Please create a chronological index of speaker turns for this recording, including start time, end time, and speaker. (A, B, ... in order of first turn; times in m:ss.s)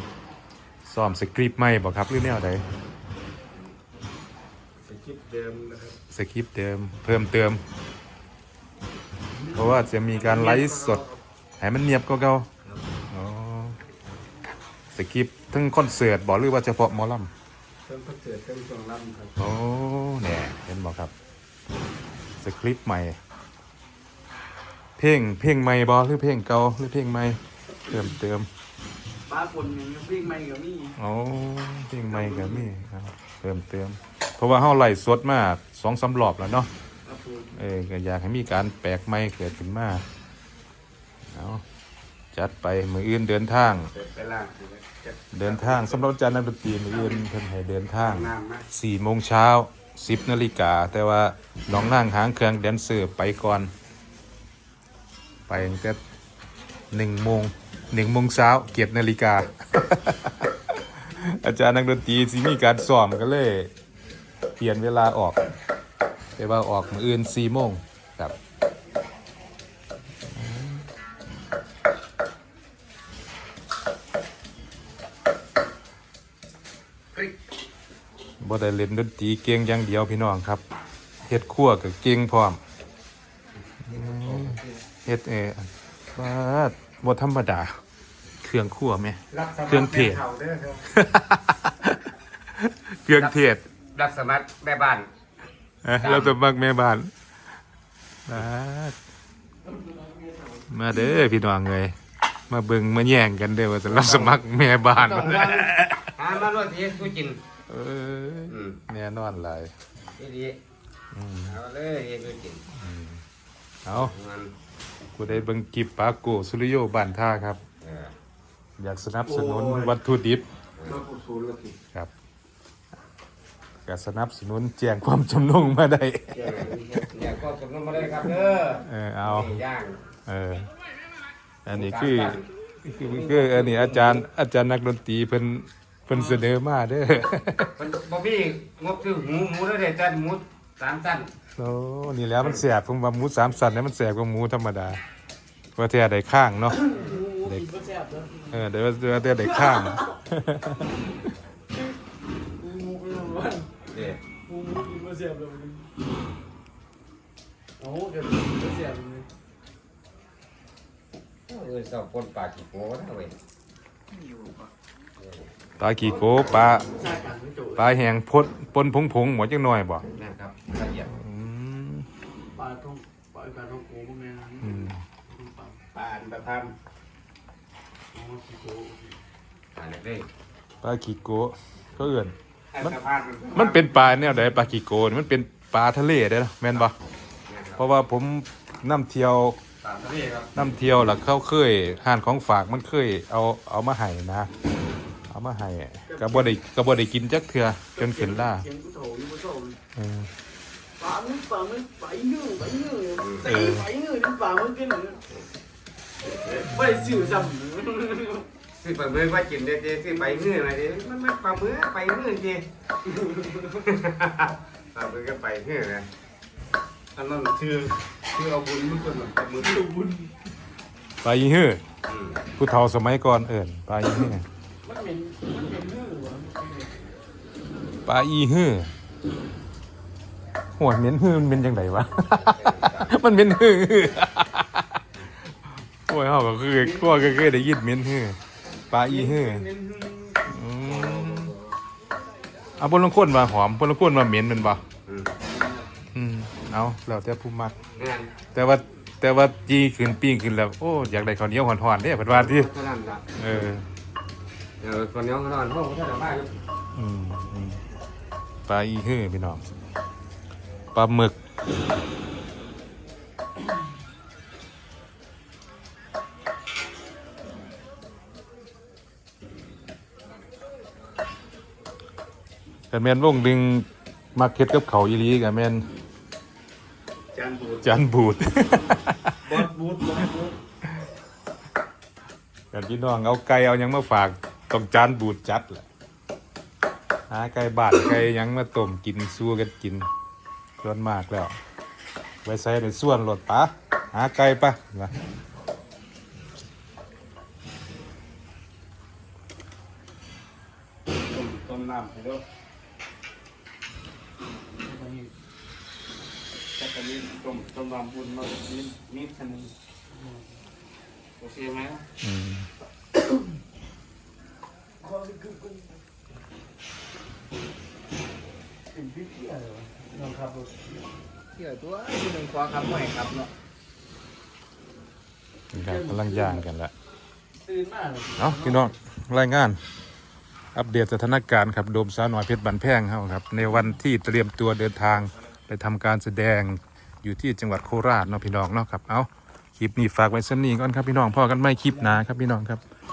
0:00.8-0:02.6 A
0:04.8-0:05.9 B
0:06.1-0:07.6 A
0:09.5-0:11.0 A
0:09.6-0:11.2 B
0:11.6-0:12.5 A
0:13.1-0:13.8 A
0:14.9-0:17.3 A
0:17.9-0:19.4 B
0:19.4-0:21.1 A
0:22.4-0:23.2 A
0:25.0-0:28.5 A
0:29.3-0:31.0 C
0:31.0-0:36.7 A
0:32.1-0:32.7 C
0:37.0-0:37.5 C
0:37.5-0:40.0 A
0:41.3-0:41.6 A
0:42.3-0:43.9 A
0:43.7-0:46.1 B
0:45.3-0:53.7 A
0:46.9-0:47.3 B
0:48.0-0:48.6 B
0:55.5-0:56.0 A
0:56.9-1:03.7 A
1:04.6-1:05.4 A
1:06.4-1:08.3 A
1:10.3-1:10.8 A
1:18.4-1:20.6 A
1:21.2-1:22.6 A
1:23.8-1:24.8 B
1:23.9-1:27.7 A
1:28.4-1:30.2 A
1:29.3-1:30.8 B
1:30.9-1:32.0 A
1:32.6-1:33.6 A
1:33.1-1:35.1 B
1:35.8-1:37.1 A
1:36.0-1:36.3 B
1:38.3-1:39.0 A
1:39.9-1:40.3 C
1:40.7-1:41.9 A
1:42.5-1:46.1 A
1:43.8-1:44.4 B
1:45.0-1:45.6 B
1:46.2-1:47.4 B
1:47.7-1:49.7 A
1:48.5-1:48.8 B
1:50.2-1:50.6 B
1:51.1-1:51.6 A
1:51.4-1:52.6 B
1:52.8-1:53.2 A
1:53.8-1:54.1 A
1:53.9-1:54.5 B
1:55.2-1:57.6 A
1:57.8-1:58.1 B
1:58.8-2:00.4 A
1:59.2-1:59.9 C
2:00.8-2:01.0 B
2:00.9-2:01.7 C
2:03.8-2:07.1 A
2:06.4-2:10.0 B
2:08.8-2:09.6 A
2:10.3-2:10.7 A
2:11.6-2:17.8 A
2:11.7-2:14.2 B
2:17.8-2:21.3 B
2:21.6-2:25.0 A
2:25.8-2:26.9 A
2:26.7-2:28.6 C
2:26.9-2:27.2 B
2:27.4-2:27.7 A
2:28.5-2:31.1 A
2:29.4-2:30.0 C
2:32.6-2:33.8 C
2:33.9-2:34.2 B
2:34.4-2:35.9 C
2:37.8-2:39.2 C
2:41.5-2:43.3 B
2:45.2-2:45.5 B
2:45.8-2:46.8 A
2:46.2-2:46.8 B
2:46.7-2:48.0 C
2:47.8-2:50.0 A
2:50.1-2:51.1 B
2:51.0-2:52.1 A
2:52.5-2:55.8 C
2:54.6-2:55.0 A
2:55.9-2:56.7 B
2:58.1-2:59.1 C
2:59.7-3:00.3 B
3:00.8-3:02.9 A
3:02.7-3:04.0 B
3:03.5-3:06.9 A
3:07.5-3:07.8 B
3:07.8-3:09.6 A
3:09.8-3:10.5 B
3:10.5-3:14.5 A
3:15.3-3:18.6 A
3:16.1-3:16.5 C
3:18.0-3:19.8 C
3:20.0-3:20.3 A
3:21.0-3:25.2 C
3:23.2-3:23.5 B
3:23.4-3:23.9 A
3:26.4-3:28.5 C
3:26.7-3:27.5 A
3:28.7-3:32.6 B
3:33.6-3:36.1 B
3:37.1-3:39.9 B
3:39.7-3:40.3 C
3:41.2-3:41.8 A
3:42.0-3:42.4 B
3:42.6-3:44.4 A
3:44.8-3:47.0 C
3:48.0-3:48.9 A
3:50.8-3:55.0 A
3:52.3-3:53.2 B
3:55.7-3:58.4 A
3:56.8-3:57.4 C
3:58.9-3:59.7 A
3:59.0-4:00.5 C
4:00.5-4:01.5 A
4:00.8-4:01.8 B
4:02.8-4:04.8 A
4:05.0-4:05.4 B
4:06.1-4:07.8 A
4:08.0-4:08.3 B
4:08.5-4:12.7 A
4:12.3-4:13.7 B
4:13.4-4:13.8 A
4:14.8-4:16.5 B
4:16.9-4:17.8 A
4:18.7-4:19.7 A
4:20.9-4:21.4 A
4:32.9-4:35.8 A
4:37.3-4:37.8 C
4:37.8-4:39.5 A
4:39.4-4:40.5 C
4:42.7-4:45.8 A
4:47.3-4:50.1 A
4:50.8-4:51.6 A
4:52.4-4:55.1 A
5:01.2-5:02.4 B
5:04.8-5:05.3 C
5:06.7-5:09.7 B
5:10.1-5:10.5 C
5:11.4-5:12.0 B
5:12.2-5:12.7 A
5:15.0-5:15.9 C
5:18.9-5:20.9 C
5:21.6-5:23.5 B
5:25.7-5:26.9 A
5:25.8-5:26.6 C
5:27.6-5:28.9 C
5:28.4-5:29.8 A
5:30.7-5:42.8 A